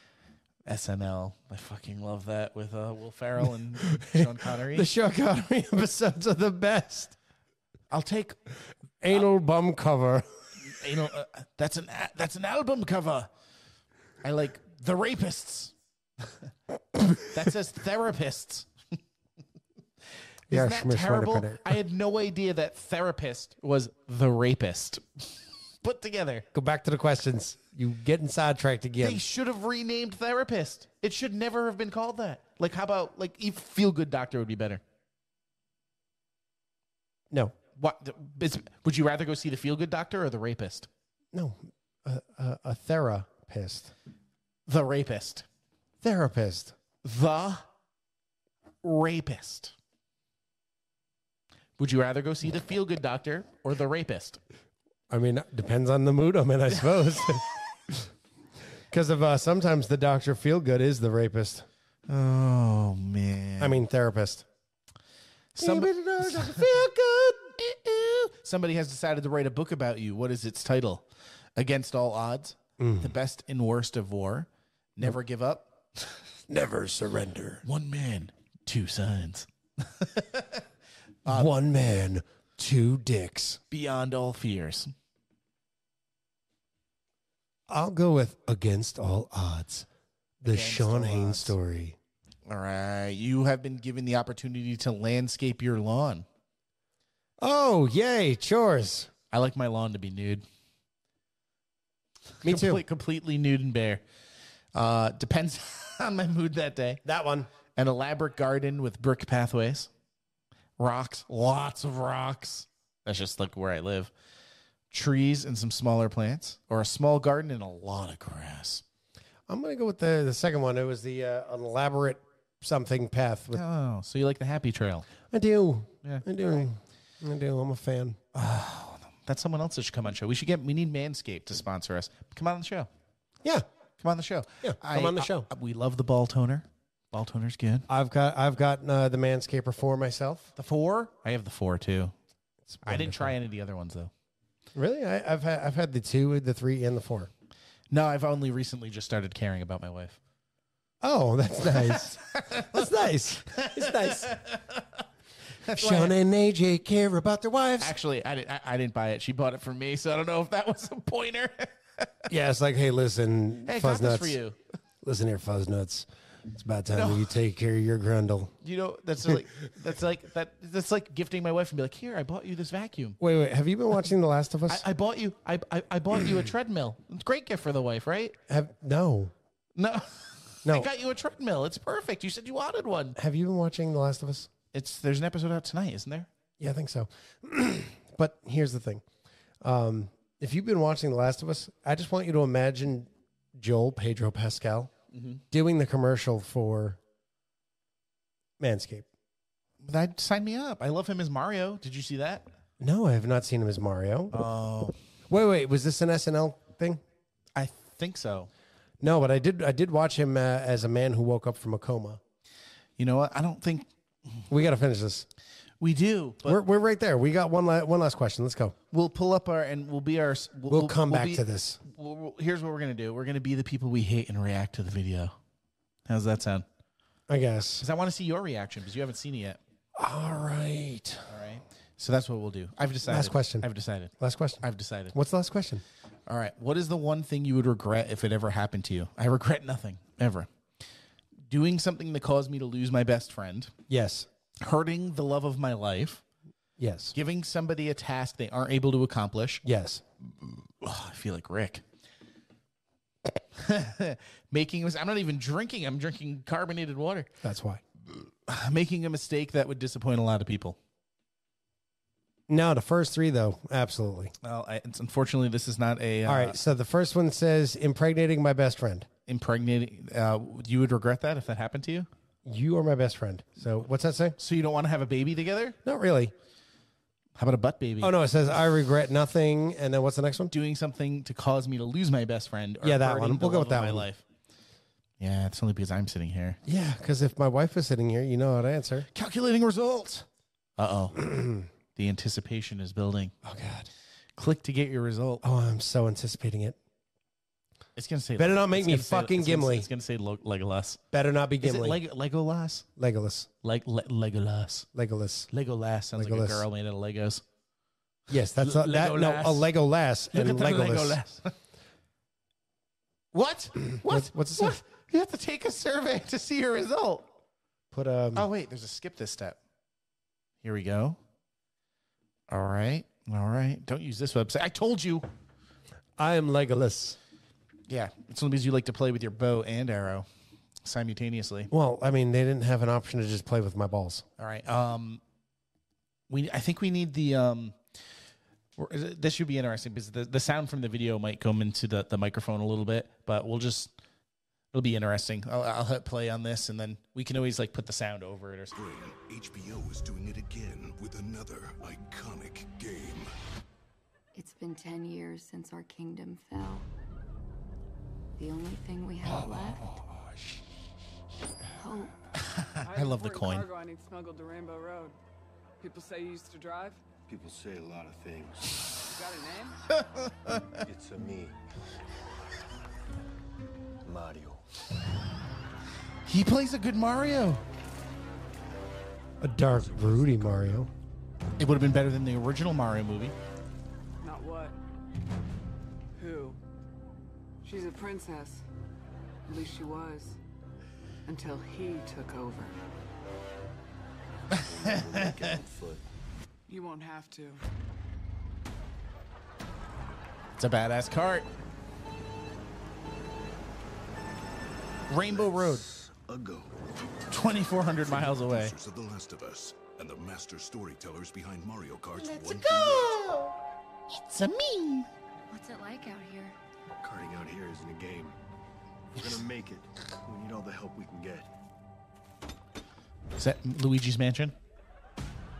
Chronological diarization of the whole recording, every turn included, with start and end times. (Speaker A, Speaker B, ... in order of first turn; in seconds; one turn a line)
Speaker A: 0.7-4.9
Speaker B: 3.8-7.2
Speaker A: 7.9-8.4
Speaker B: 9.0-10.3
Speaker A: 10.6-13.3
Speaker A: 14.2-15.7
Speaker A: 17.2-18.7
Speaker A: 20.5-26.4
Speaker B: 20.5-21.8
Speaker B: 26.5-29.2
Speaker A: 29.0-34.8
Speaker A: 37.8-40.9
Speaker B: 41.3-43.9
Speaker A: 44.7-45.5
Speaker B: 46.0-46.8
Speaker A: 47.0-47.6
Speaker A: 48.8-49.7
Speaker A: 51.8-54.4
Speaker B: 55.1-58.1
Speaker B: 58.9-61.7
Speaker A: 62.1-63.8
Speaker B: 63.6-64.5
Speaker A: 65.5-66.7
Speaker B: 65.6-67.5
Speaker A: 67.6-76.1
Speaker B: 72.8-73.1
Speaker B: 76.5-77.6
Speaker A: 77.6-80.6
Speaker A: 81.2-81.5
Speaker B: 81.2-83.6
Speaker A: 83.7-84.9
Speaker B: 87.7-89.9
Speaker B: 90.4-92.0
Speaker A: 90.4-91.5
Speaker A: 92.5-96.2
Speaker B: 97.4-99.1
Speaker A: 99.3-100.4
Speaker A: 102.4-104.0
Speaker B: 102.4-102.8
Speaker A: 104.7-107.0
Speaker B: 107.0-107.5
Speaker A: 107.8-109.9
Speaker A: 110.8-114.1
Speaker A: 114.9-118.8
Speaker B: 119.5-123.6
Speaker A: 123.5-125.1
Speaker B: 125.3-128.2
Speaker A: 128.3-132.9
Speaker A: 134.0-137.8
Speaker B: 134.6-135.5
Speaker B: 137.9-140.5
Speaker A: 140.6-142.1
Speaker B: 142.7-143.3
Speaker A: 142.8-144.1
Speaker B: 144.7-147.3
Speaker A: 147.9-150.2
Speaker B: 151.0-154.3
Speaker A: 151.9-155.0
Speaker A: 155.6-156.2
Speaker B: 155.8-157.9
Speaker A: 157.8-162.2
Speaker B: 162.3-164.4
Speaker A: 163.7-164.6
Speaker B: 165.0-168.5
Speaker A: 166.9-167.3
Speaker A: 168.6-173.2
Speaker B: 173.2-174.8
Speaker A: 174.7-178.3
Speaker B: 178.5-179.3
Speaker A: 179.8-183.2
Speaker B: 183.2-184.5
Speaker A: 184.7-186.3
Speaker B: 186.6-189.0
Speaker B: 189.6-194.9
Speaker A: 195.1-195.4
Speaker B: 195.5-197.0
Speaker B: 198.6-199.1
Speaker A: 199.8-202.5
Speaker B: 202.8-204.3
Speaker A: 204.3-204.9
Speaker B: 205.3-207.0
Speaker A: 207.6-208.5
Speaker B: 209.0-212.2
Speaker A: 213.0-213.9
Speaker B: 214.5-215.2
Speaker A: 215.8-216.6
Speaker B: 216.4-218.7
Speaker A: 218.9-225.3
Speaker B: 220.7-221.8
Speaker A: 226.1-226.7
Speaker B: 227.3-227.8
Speaker A: 227.8-229.6
Speaker B: 229.9-231.3
Speaker A: 231.3-235.1
Speaker B: 233.0-235.8
Speaker A: 236.3-240.5
Speaker A: 241.5-243.7
Speaker B: 243.9-244.3
Speaker A: 244.6-246.2
Speaker B: 246.8-247.1
Speaker A: 247.1-249.6
Speaker B: 249.6-250.0
Speaker A: 250.4-251.8
Speaker A: 253.5-257.3
Speaker B: 257.4-257.8
Speaker A: 258.1-260.8
Speaker B: 262.5-264.3
Speaker A: 264.4-266.6
Speaker B: 266.2-269.1
Speaker A: 269.3-272.1
Speaker B: 272.4-274.4
Speaker A: 274.4-275.8
Speaker B: 275.8-276.3
Speaker A: 277.4-278.1
Speaker B: 278.0-280.5
Speaker A: 280.5-284.2
Speaker B: 282.8-284.1
Speaker A: 285.2-286.6
Speaker B: 286.6-289.1
Speaker A: 289.1-290.2
Speaker A: 290.8-291.2
Speaker B: 291.1-291.7
Speaker A: 291.9-293.3
Speaker B: 293.4-293.9
Speaker A: 294.4-295.4
Speaker B: 295.4-296.8
Speaker A: 297.9-301.0
Speaker B: 298.4-299.9
Speaker B: 301.1-302.0
Speaker A: 301.6-302.8
Speaker B: 303.0-303.5
Speaker A: 303.6-304.9
Speaker B: 304.9-305.5
Speaker A: 305.5-307.4
Speaker B: 306.1-306.6
Speaker B: 308.3-311.2
Speaker A: 308.6-309.7
Speaker A: 310.3-311.5
Speaker A: 313.3-317.3
Speaker B: 313.9-314.8
Speaker B: 317.9-318.5
Speaker A: 318.3-319.6
Speaker A: 320.6-321.2
Speaker A: 322.5-325.3
Speaker B: 326.2-327.2
Speaker A: 327.9-330.2
Speaker A: 330.8-331.7
Speaker B: 331.7-334.2
Speaker A: 334.4-335.2
Speaker A: 336.3-337.8
Speaker A: 338.8-343.9
Speaker A: 344.7-348.7
Speaker C: 348.7-353.3
Speaker D: 354.3-356.9
Speaker D: 358.4-359.9
Speaker D: 361.8-362.1
Speaker A: 362.4-363.6
Speaker E: 362.8-365.2
Speaker E: 365.8-367.0
Speaker F: 367.3-368.8
Speaker E: 369.1-369.8
Speaker A: 369.9-370.8
Speaker F: 370.8-371.6
Speaker F: 374.0-374.6
Speaker A: 376.2-377.6
Speaker B: 379.4-380.9
Speaker F: 379.6-380.9
Speaker A: 381.6-383.3
Speaker E: 384.2-384.8
Speaker E: 386.1-386.6
Speaker E: 387.6-388.6
Speaker E: 389.4-390.4
Speaker E: 391.2-392.8
Speaker F: 394.5-396.0
Speaker A: 394.6-395.4
Speaker E: 396.7-397.6
Speaker A: 400.6-401.5
Speaker A: 405.1-405.8
Speaker F: 405.1-407.1
Speaker A: 407.3-408.7
Speaker C: 408.1-413.2
Speaker A: 412.3-413.4
Speaker A: 414.1-415.1
Speaker D: 415.5-416.6
Speaker F: 417.0-418.4
Speaker F: 419.1-421.5
Speaker A: 423.4-424.6